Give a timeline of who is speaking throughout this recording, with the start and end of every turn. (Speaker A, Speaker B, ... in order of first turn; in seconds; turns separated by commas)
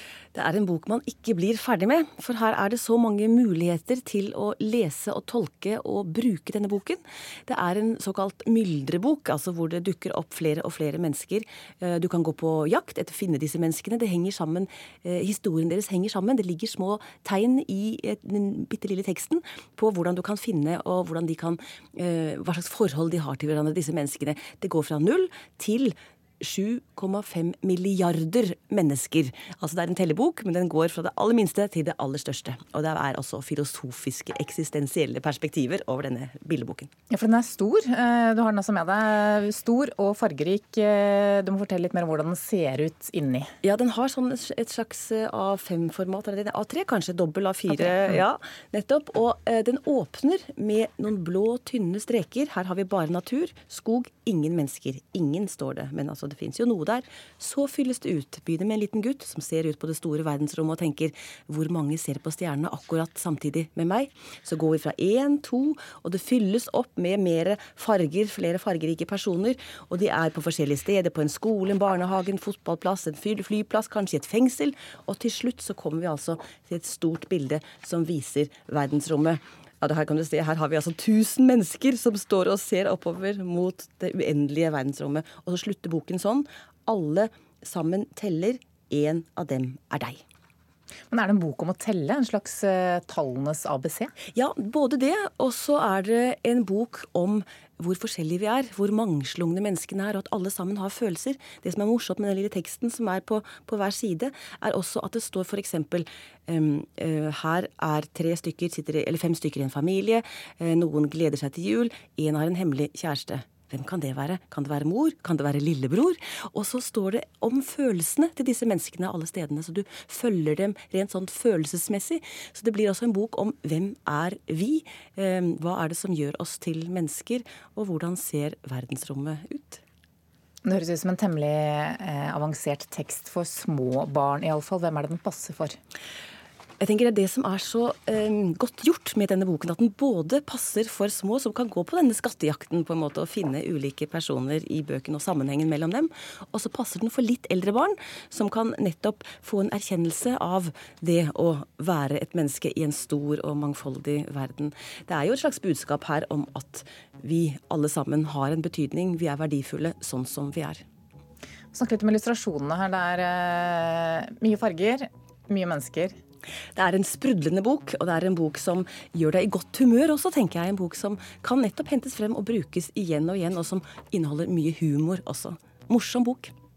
Speaker A: 0.3-36.9, Speaker B: 37.1-43.5, Speaker A: 43.6-90.2, Speaker B: 91.1-94.1, Speaker A: 94.3-129.8, Speaker B: 130.6-135.8, Speaker A: 136.8-160.8, Speaker B: 161.7-166.1, Speaker A: 166.7-176.5